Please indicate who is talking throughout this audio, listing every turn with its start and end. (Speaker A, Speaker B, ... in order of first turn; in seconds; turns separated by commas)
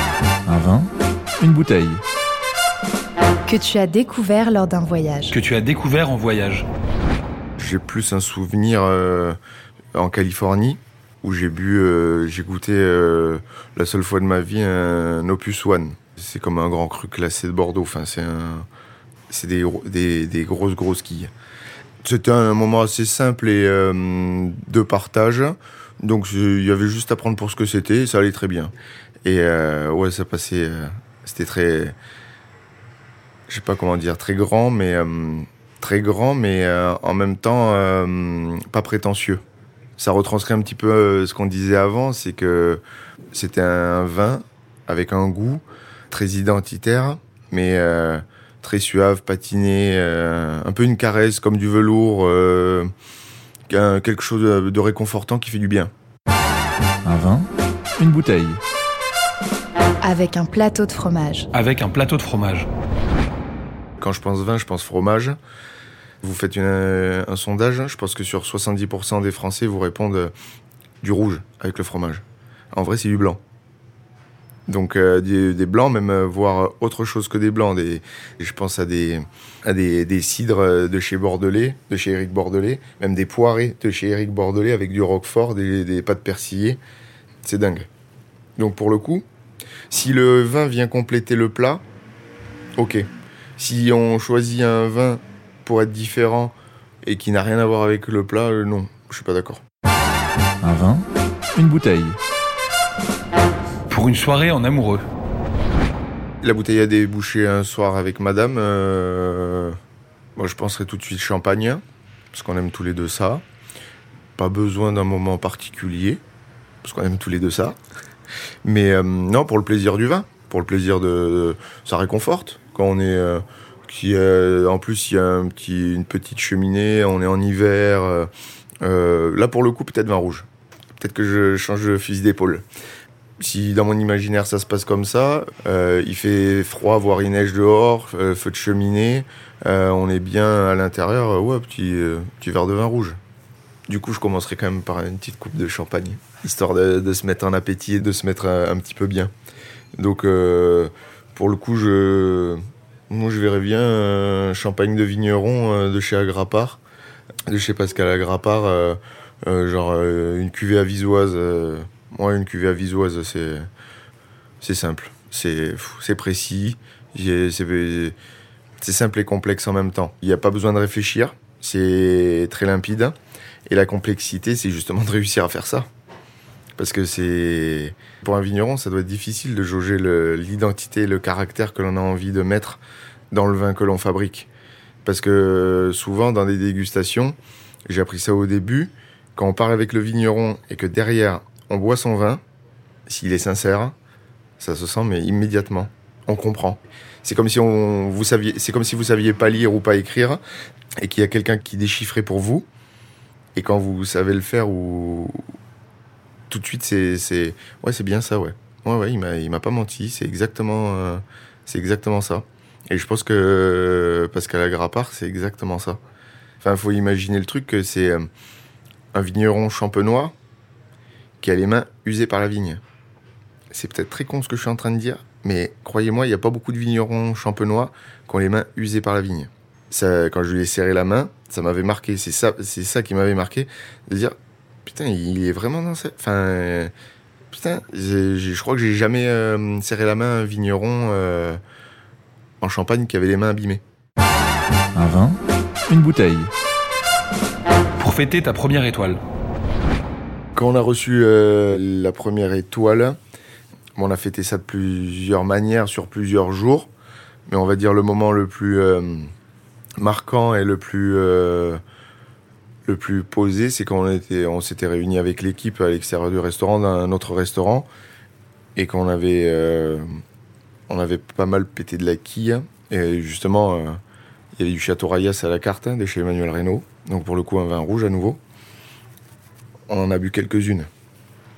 Speaker A: 0.5-2.0, Speaker B: 3.5-5.3, Speaker C: 5.3-6.7, Speaker D: 7.6-9.4, Speaker D: 9.9-18.7, Speaker D: 19.3-21.3, Speaker D: 22.0-28.7, Speaker D: 29.2-31.9, Speaker D: 33.5-39.4, Speaker D: 40.0-42.8, Speaker D: 43.3-52.9, Speaker D: 53.7-55.9, Speaker A: 57.0-58.6, Speaker B: 60.0-61.5, Speaker C: 61.5-62.7, Speaker D: 64.0-65.4, Speaker D: 66.2-70.3, Speaker D: 71.0-73.4, Speaker D: 74.7-86.8, Speaker D: 87.4-87.9, Speaker D: 88.6-89.2, Speaker D: 89.9-91.8, Speaker D: 92.8-93.1, Speaker D: 93.6-99.6, Speaker A: 100.6-102.2, Speaker C: 103.9-105.0, Speaker D: 106.4-109.8, Speaker D: 110.3-111.8, Speaker D: 112.3-113.4, Speaker D: 114.4-116.2, Speaker D: 116.8-117.8, Speaker D: 118.6-128.3, Speaker D: 128.8-132.6, Speaker D: 133.4-143.2, Speaker D: 143.9-149.3, Speaker D: 150.0-156.8, Speaker D: 157.5-163.7, Speaker D: 164.6-168.1, Speaker D: 168.8-173.2, Speaker D: 173.7-175.9, Speaker D: 176.8-182.8, Speaker D: 183.3-184.5, Speaker D: 185.0-187.3, Speaker D: 187.9-192.4, Speaker D: 193.1-193.9, Speaker D: 194.6-200.4, Speaker D: 201.0-202.7, Speaker D: 203.5-205.5, Speaker D: 206.5-216.0, Speaker D: 216.6-218.3, Speaker D: 219.1-220.3, Speaker D: 221.4-222.8, Speaker D: 223.7-236.9, Speaker D: 237.5-241.6, Speaker D: 242.6-243.8, Speaker A: 244.9-246.5, Speaker C: 248.0-249.2, Speaker D: 250.5-253.2, Speaker D: 253.9-256.9, Speaker D: 257.5-259.3, Speaker D: 260.0-261.8, Speaker D: 262.9-267.9, Speaker D: 268.8-270.1, Speaker D: 270.9-274.0, Speaker D: 274.6-278.4, Speaker D: 279.9-280.9